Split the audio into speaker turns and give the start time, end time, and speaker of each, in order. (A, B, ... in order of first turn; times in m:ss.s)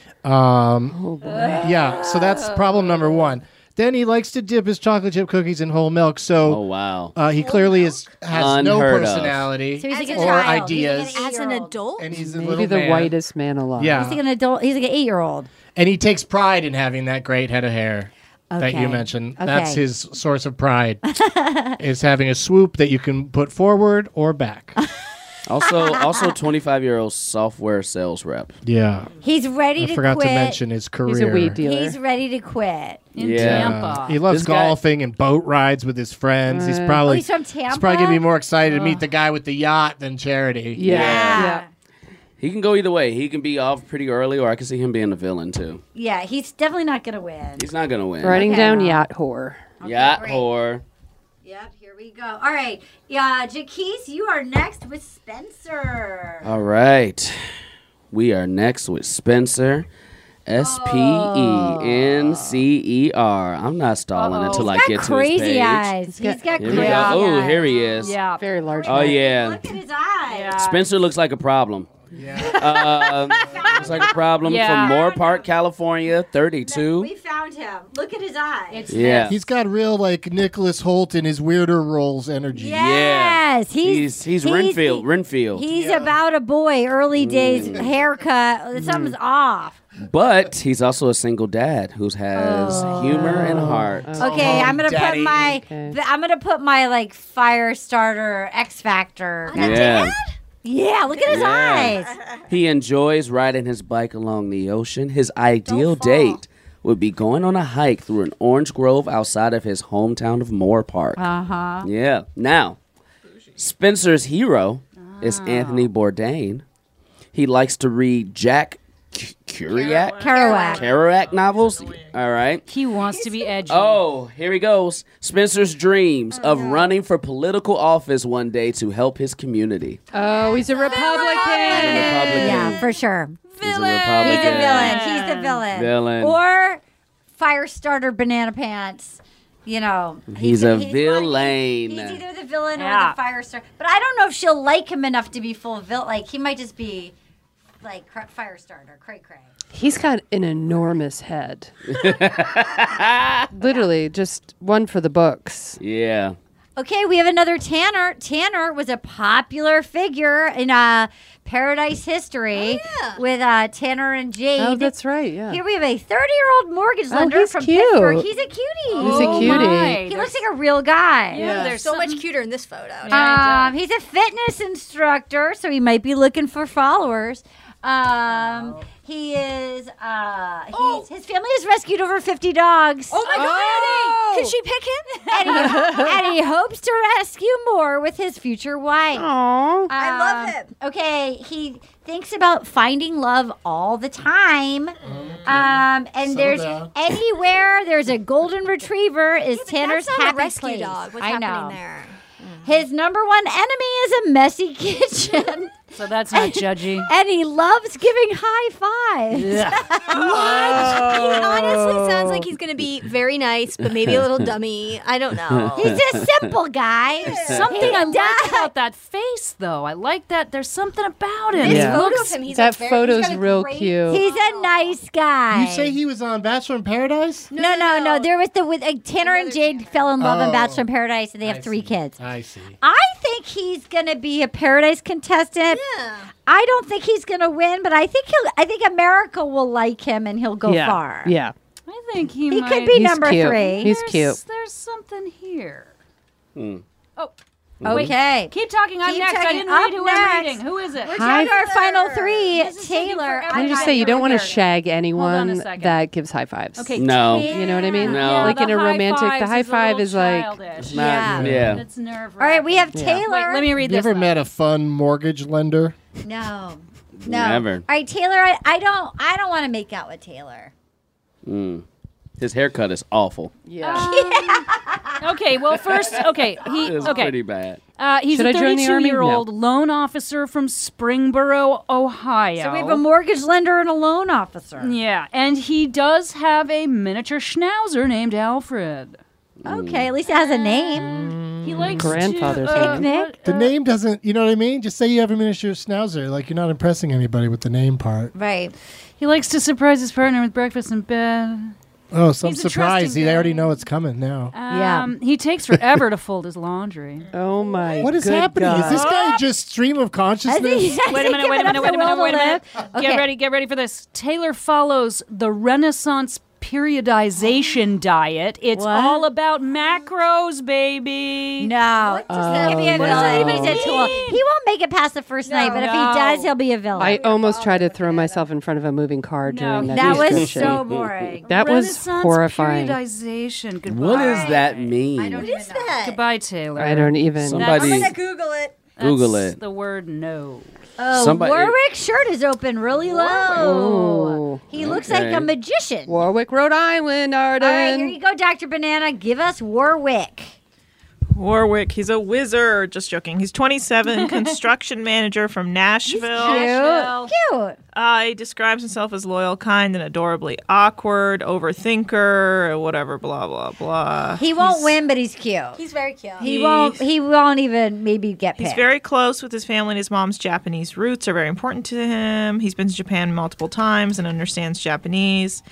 0:00.2-0:01.0 A
0:00.9-0:02.0 B
0:01.3-0:01.6 C
0:01.6-0:06.6 A
0:06.5-0:07.2 D
0:07.2-0:11.2 A
0:07.3-0:08.2 E
0:08.3-0:09.5 D
0:09.8-0:11.8 C
0:09.9-0:12.1 E
0:12.0-0:13.2 A
0:12.2-0:14.1 B
0:13.8-0:14.2 A
0:13.9-0:15.5 C
0:15.8-0:21.0 A
0:18.5-0:19.8 C
0:21.1-0:21.8 C
0:21.8-0:24.8 A
0:25.5-0:28.6 D
0:25.7-0:26.2 C
0:28.6-0:29.1 A
0:29.2-0:30.6 C
0:29.8-0:31.6 A
0:31.1-0:32.0 B
0:31.6-0:33.1 C
0:33.2-0:34.2 F
0:33.2-0:34.8 D
0:33.2-0:41.1 A
0:36.5-0:37.1 B
0:37.1-0:38.2 C
0:40.8-0:41.7 B
0:40.9-0:41.5 D
0:40.9-0:41.7 C
0:42.4-0:45.8 D
0:46.0-0:47.7 C
0:47.6-0:48.5 D
0:48.2-0:49.6 B
0:48.2-0:49.0 C
0:49.8-0:50.5 C
0:49.8-0:50.8 D
0:51.4-0:56.5 C
0:56.4-0:57.4 D
0:58.1-0:59.9 D
1:00.5-1:05.9 D
1:00.6-1:02.6 C
1:04.1-1:04.8 F
1:04.5-1:10.6 C
1:06.1-1:07.1 B
1:06.6-1:08.2 D
1:06.7-1:07.4 F
1:08.0-1:08.5 F
1:08.2-1:09.2 B
1:08.9-1:09.7 D
1:10.3-1:10.8 F
1:10.6-1:11.9 D
1:12.1-1:12.8 A
1:12.4-1:14.2 C
1:12.5-1:17.1 D
1:13.6-1:14.0 A
1:14.4-1:15.3 F
1:16.6-1:18.9 C
1:18.7-1:19.4 F
1:18.9-1:19.4 D
1:19.3-1:22.9 A
1:22.5-1:29.8 C
1:22.8-1:25.7 D
1:25.7-1:26.2 A
1:27.2-1:27.9 D
1:28.8-1:29.2 B
1:30.0-1:34.2 D
1:32.4-1:33.6 C
1:33.3-1:36.0 B
1:34.2-1:40.1 C
1:34.2-1:35.5 A
1:39.5-1:40.4 E
1:39.6-1:40.2 D
1:40.6-1:42.1 C
1:41.1-1:42.4 E
1:41.3-1:42.0 D
1:42.5-1:51.2 D
1:45.7-1:46.4 E
1:51.2-1:51.9 C
1:51.8-1:52.8 D
1:53.3-1:53.6 G
1:53.6-1:56.6 D
1:55.0-1:55.9 F
1:57.3-2:02.7 D
1:59.7-2:02.2 G
2:00.2-2:00.9 C
2:02.7-2:04.0 F
2:03.1-2:03.4 C
2:03.7-2:10.0 D
2:06.3-2:06.9 C
2:10.1-2:12.8 B
2:10.4-2:13.6 C
2:10.8-2:12.3 E
2:11.7-2:12.8 D
2:13.6-2:15.7 F
2:13.6-2:15.1 D
2:14.2-2:16.8 C
2:15.7-2:16.4 D
2:17.4-2:27.1 C
2:20.3-2:22.2 D
2:22.8-2:23.2 F
2:27.8-2:29.5 C
2:29.7-2:31.7 B
2:31.9-2:33.5 D
2:33.5-2:35.8 B
2:33.6-2:33.9 C
2:35.8-2:36.4 D
2:36.8-2:44.9 C
2:42.5-2:43.2 E
2:44.6-2:45.6 B
2:45.5-2:51.5 C
2:47.1-2:48.3 B
2:49.0-2:50.0 B
2:49.0-2:50.4 F
2:51.3-2:52.2 F
2:51.3-2:51.8 B
2:51.4-2:53.4 E
2:53.0-2:53.8 F
2:53.1-3:03.4 C
2:58.3-2:58.9 F
3:00.7-3:01.1 E
3:03.1-3:05.7 E
3:03.3-3:04.2 F
3:03.3-3:04.5 B
3:05.3-3:09.3 C
3:05.4-3:05.8 F
3:05.6-3:06.1 B
3:09.1-3:09.9 B
3:09.9-3:21.8 C
3:10.0-3:10.7 E
3:15.0-3:16.9 A
3:19.5-3:22.8 E
3:22.6-3:25.8 C
3:25.9-3:27.1 F
3:26.3-3:31.5 C
3:29.4-3:30.9 F
3:30.2-3:36.0 E
3:30.3-3:31.3 B
3:35.5-3:36.5 D
3:35.8-3:38.7 C
3:37.2-3:38.0 E
3:37.3-3:37.9 D
3:37.5-3:42.4 F
3:41.5-3:45.0 E
3:41.6-3:44.2 B
3:44.1-3:45.9 C
3:45.5-3:47.5 A
3:47.5-3:48.3 E
3:47.5-3:52.2 C
3:49.2-3:50.1 E
3:50.2-3:50.9 A
3:51.4-3:52.8 A
3:52.8-3:55.8 C
3:55.7-3:56.3 E
3:56.5-4:01.3 C
4:00.6-4:01.6 B
4:01.9-4:06.0 F
4:02.5-4:04.0 C
4:02.9-4:04.4 B
4:06.6-4:06.8 D
4:07.8-4:08.2 D
4:07.9-4:11.2 F
4:07.9-4:14.6 C
4:11.1-4:12.6 E
4:11.1-4:11.6 B
4:12.5-4:16.0 F
4:13.5-4:20.6 B
4:16.8-4:24.4 F
4:17.0-4:18.6 D
4:17.2-4:18.6 C
4:20.8-4:21.8 D
4:20.9-4:21.8 C
4:21.2-4:21.5 B
4:21.4-4:21.7 A
4:22.4-4:23.7 C
4:22.9-4:23.3 B
4:23.8-4:26.0 A
4:26.2-4:30.7 C
4:27.2-4:27.9 D
4:31.4-4:31.8 D
4:32.4-4:33.5 D
4:33.6-4:34.6 B
4:33.8-4:34.5 F
4:33.9-4:35.2 C
4:35.2-4:37.4 F
4:35.7-4:37.8 D
4:38.0-4:43.0 F
4:38.3-4:39.5 B
4:42.6-4:44.9 C
4:44.8-4:49.2 F
4:49.6-4:50.1 D
4:49.7-4:51.3 C
4:50.2-4:53.7 F
4:51.0-4:53.1 B
4:52.5-4:53.4 C
4:53.4-4:58.3 A
4:58.3-4:58.8 C
4:59.2-5:01.8 F
5:02.1-5:04.5 A
5:02.4-5:03.8 F
5:04.5-5:07.3 F
5:04.7-5:05.1 C
5:07.3-5:09.1 B
5:08.0-5:11.0 A
5:08.8-5:09.4 F
5:10.5-5:13.3 C
5:11.1-5:21.7 F
5:18.8-5:19.3 C
5:21.6-5:27.2 C
5:22.0-5:24.4 E
5:22.3-5:24.2 B
5:25.4-5:26.3 E
5:25.6-5:26.5 F
5:27.0-5:28.5 E
5:27.0-5:30.8 B
5:29.4-5:30.4 F
5:29.9-5:31.5 C
5:30.0-5:31.4 D
5:31.5-5:33.0 B
5:31.5-5:35.0 F
5:33.8-5:35.5 D
5:34.1-5:36.1 C
5:35.4-5:36.2 E
5:36.0-5:38.1 F
5:36.8-5:37.8 B
5:37.4-5:38.2 D
5:37.6-5:38.8 E
5:39.0-5:40.7 F
5:39.0-5:39.6 D
5:41.0-5:46.2 C
5:41.1-5:41.8 D
5:43.0-5:43.8 E
5:43.5-5:44.7 B
5:44.8-5:45.5 D
5:46.1-5:48.2 B
5:47.6-5:50.6 C
5:51.4-5:56.8 G
5:54.2-5:54.5 F
5:56.1-5:57.8 C
5:56.1-5:57.3 F
5:57.9-6:04.9 G
6:04.4-6:05.8 C
6:05.8-6:06.5 E
6:06.4-6:08.9 C
6:06.4-6:07.1 G
6:08.6-6:15.6 G